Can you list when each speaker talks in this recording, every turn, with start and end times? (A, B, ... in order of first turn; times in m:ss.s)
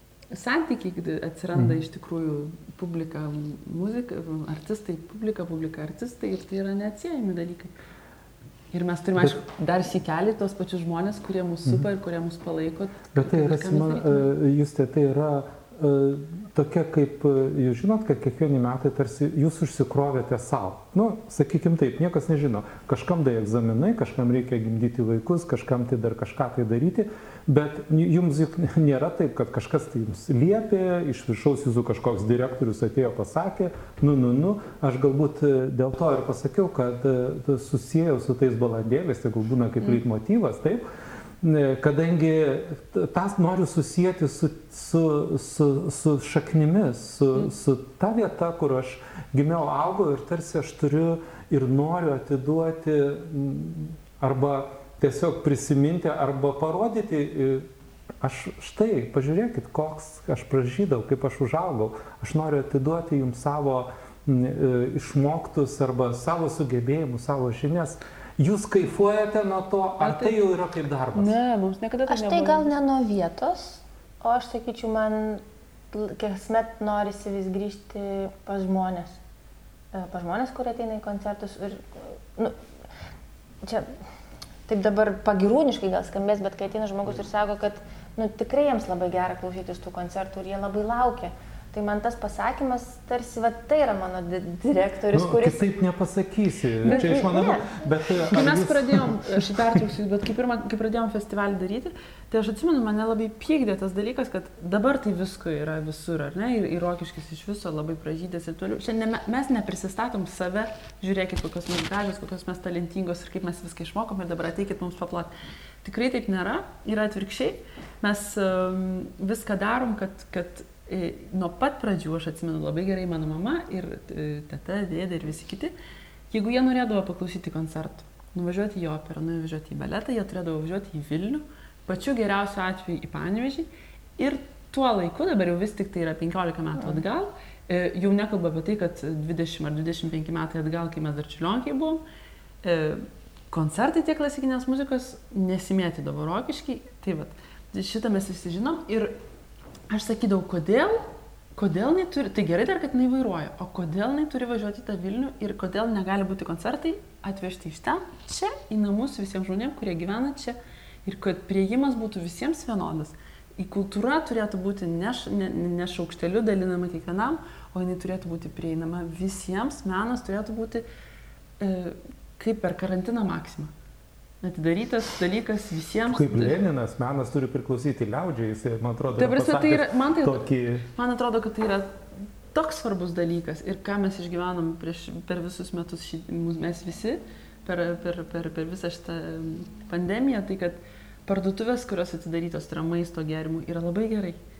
0:00.3-0:07.7 A
0:08.7-0:14.3 A
0:13.1-0:40.8 B
0:41.4-0:57.7 B
0:58.2-1:11.3 B
1:10.0-1:10.4 A
1:11.1-1:12.7 A
1:12.1-1:19.2 C
1:19.9-1:22.6 C
1:23.6-1:23.9 C
1:24.7-1:35.6 C
1:35.1-1:39.6 B
1:36.8-1:37.2 A
1:36.8-1:37.8 C
1:38.2-1:55.3 A
1:55.8-2:05.7 A
2:06.3-2:22.0 A
2:22.6-2:29.2 A
2:29.9-2:50.8 A
2:51.6-2:53.7 A
2:54.4-2:56.6 A
2:56.1-3:00.9 B
2:59.2-3:02.0 A
3:02.5-3:14.4 A